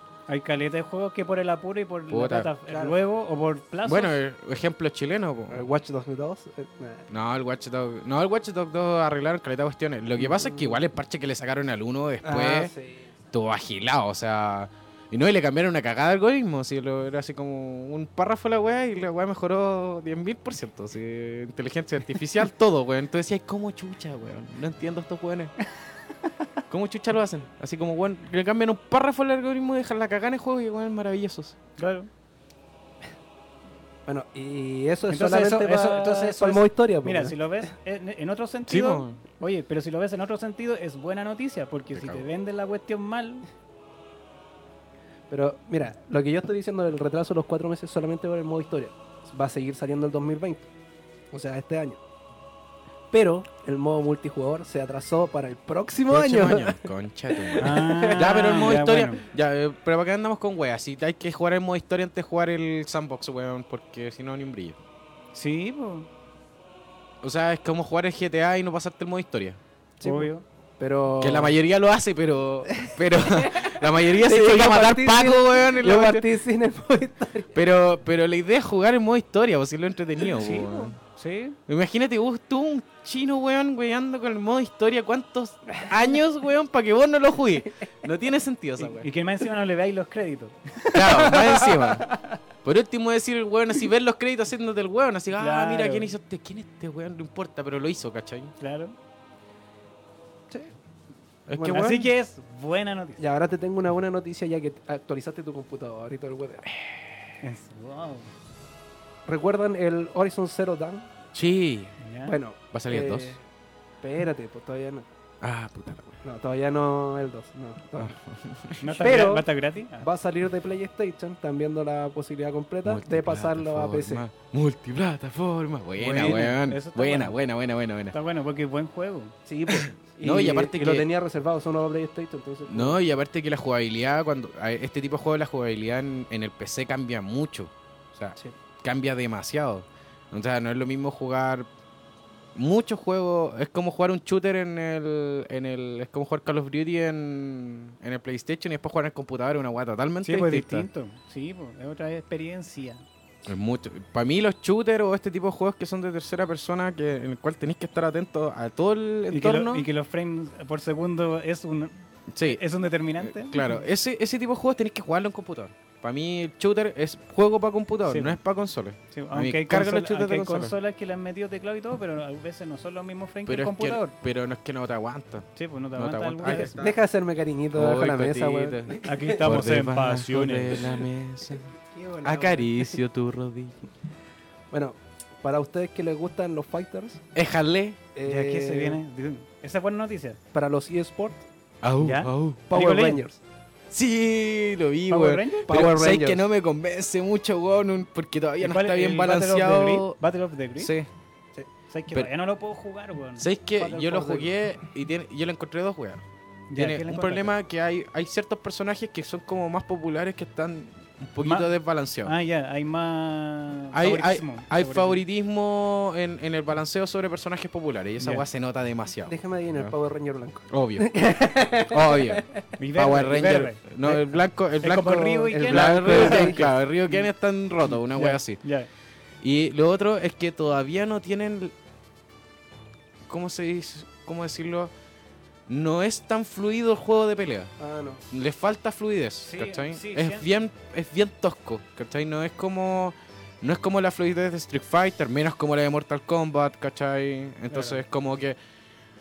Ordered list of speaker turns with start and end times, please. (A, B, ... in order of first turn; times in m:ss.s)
0:00.3-0:04.1 A
0:02.1-0:02.5 B
0:02.7-0:03.0 C
0:03.8-0:05.6 B
0:05.5-0:07.1 C
0:07.1-0:12.7 B
0:10.2-0:10.8 C
0:12.2-0:13.2 C
0:13.3-0:25.5 B
0:26.7-0:31.6 B
0:31.8-0:32.1 A
0:34.1-0:37.4 C
0:35.1-0:43.4 A
0:38.7-0:39.2 B
0:41.9-0:42.3 B
0:45.3-0:50.7 C
0:51.3-0:52.0 C
0:53.1-0:58.3 C
0:56.1-1:04.8 B
0:57.6-0:59.2 A
1:05.3-1:06.1 A
1:07.2-1:09.6 B
1:10.0-1:11.6 C
1:10.0-1:10.4 A
1:11.2-1:16.3 B
1:12.8-1:17.5 C
1:17.5-1:21.0 B
1:20.3-1:21.6 A
1:21.7-1:29.1 B
1:28.8-1:32.4 A
1:30.9-1:32.1 B
1:32.6-1:38.5 B
1:35.4-1:36.1 A
1:38.6-1:38.9 A
1:41.5-1:42.1 B
1:41.6-1:43.2 A
1:43.2-1:46.7 C
1:47.4-1:48.3 A
1:49.3-1:51.1 C
1:51.3-1:52.0 B
1:52.0-1:52.4 A
1:52.3-1:53.4 C
1:52.7-1:53.4 B
1:54.0-1:55.1 C
1:55.4-1:56.2 B
1:56.2-1:58.1 C
1:58.0-1:59.3 B
1:58.8-2:00.1 A
1:59.0-1:59.5 C
2:00.0-2:04.2 C
2:02.8-2:08.2 B
2:06.0-2:07.4 A
2:08.1-2:09.4 A
2:09.5-2:13.0 C
2:09.7-2:11.1 B
2:12.7-2:21.7 B
2:22.6-2:30.9 B
2:30.2-2:33.0 A
2:33.5-2:39.8 B
2:39.3-2:43.8 A
2:42.3-2:42.6 B
2:43.2-2:50.8 B
2:48.1-2:48.4 A
2:49.1-2:54.1 A
2:53.5-2:56.9 B
2:55.6-2:56.9 A
2:56.5-2:59.4 C
2:57.7-3:03.9 B
2:59.0-3:01.0 A
3:02.1-3:02.6 C
3:04.7-3:07.2 C
3:07.3-3:08.0 B
3:08.2-3:09.0 C
3:08.3-3:10.4 A
3:10.5-3:11.5 C
3:11.8-3:12.6 B
3:12.0-3:13.2 A
3:12.7-3:13.4 C
3:13.9-3:20.2 B
3:15.1-3:15.9 A
3:15.7-3:16.4 C
3:18.6-3:20.9 A
3:20.8-3:21.1 B
3:21.9-3:23.5 A
3:23.4-3:32.3 B
3:23.8-3:24.5 C
3:26.7-3:27.5 A
3:31.4-3:31.7 A
3:32.2-3:35.2 A
3:33.9-3:39.9 B
3:38.2-3:38.4 A
3:39.3-3:42.7 C
3:40.7-3:41.1 B
3:41.8-3:48.6 B
3:42.8-3:44.2 A
3:44.8-3:47.3 A
3:45.5-3:46.7 C
3:47.9-3:48.9 A
3:49.4-3:51.8 B
3:53.3-3:54.9 B
3:55.7-3:57.7 B
3:57.8-3:58.2 C
3:58.3-4:08.6 B
3:59.4-4:00.4 A
4:07.7-4:08.0 A